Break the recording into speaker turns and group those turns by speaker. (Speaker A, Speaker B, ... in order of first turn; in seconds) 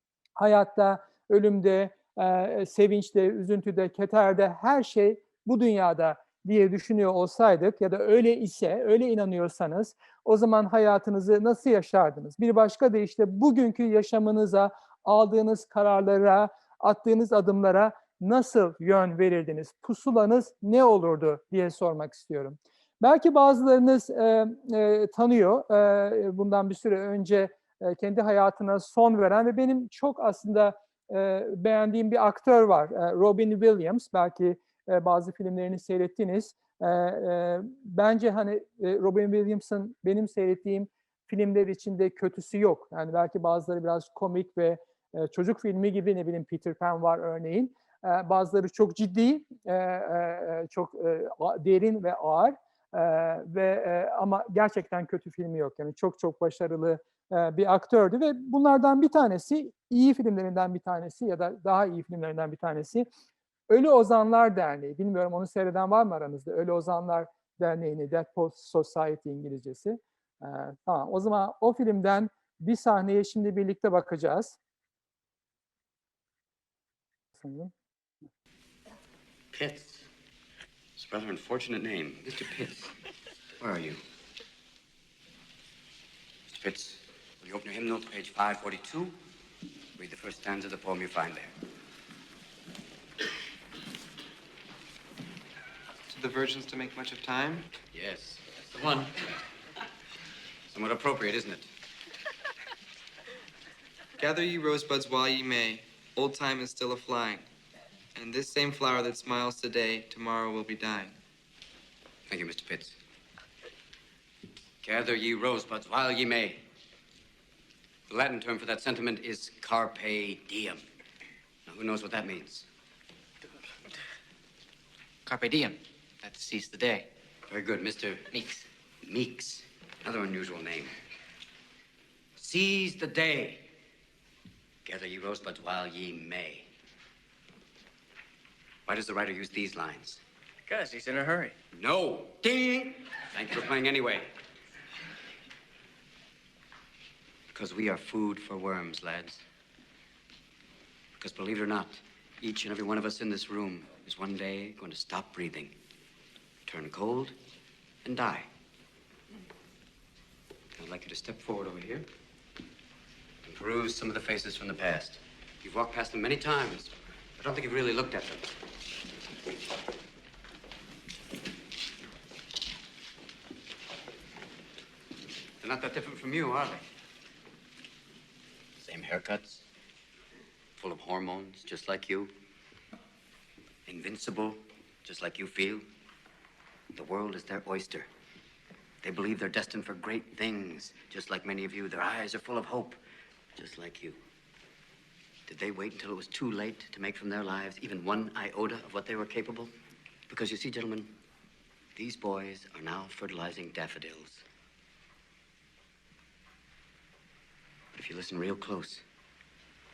Speaker A: 0.4-63.1, 63.7-74.6, 77.3-77.7
Speaker B: 79.5-80.1, 81.0-82.9, 83.6-84.0, 86.5-89.2, 90.0-91.5, 97.9-99.2, 100.7-101.7, 112.3-113.0, 114.8-116.6, 118.1-120.8, 121.7-122.7, 127.5-128.3, 129.0-130.9, 132.4-133.7, 134.8-136.7, 138.9-140.2, 141.7-144.3, 147.5-149.4, 151.2-155.7, 156.7-157.4, 158.0-158.5, 160.8-162.1, 163.4-168.5, 175.6-176.8, 178.8-179.6, 180.8-182.3, 183.9-185.9, 186.9-188.1, 189.0-193.0, 193.6-194.2, 195.5-199.7, 200.3-201.1, 202.0-204.4, 207.9-209.1
Speaker C: 96.1-97.7, 104.2-107.5, 108.2-111.1
Speaker D: 125.2-127.1, 128.3-128.7, 140.7-141.6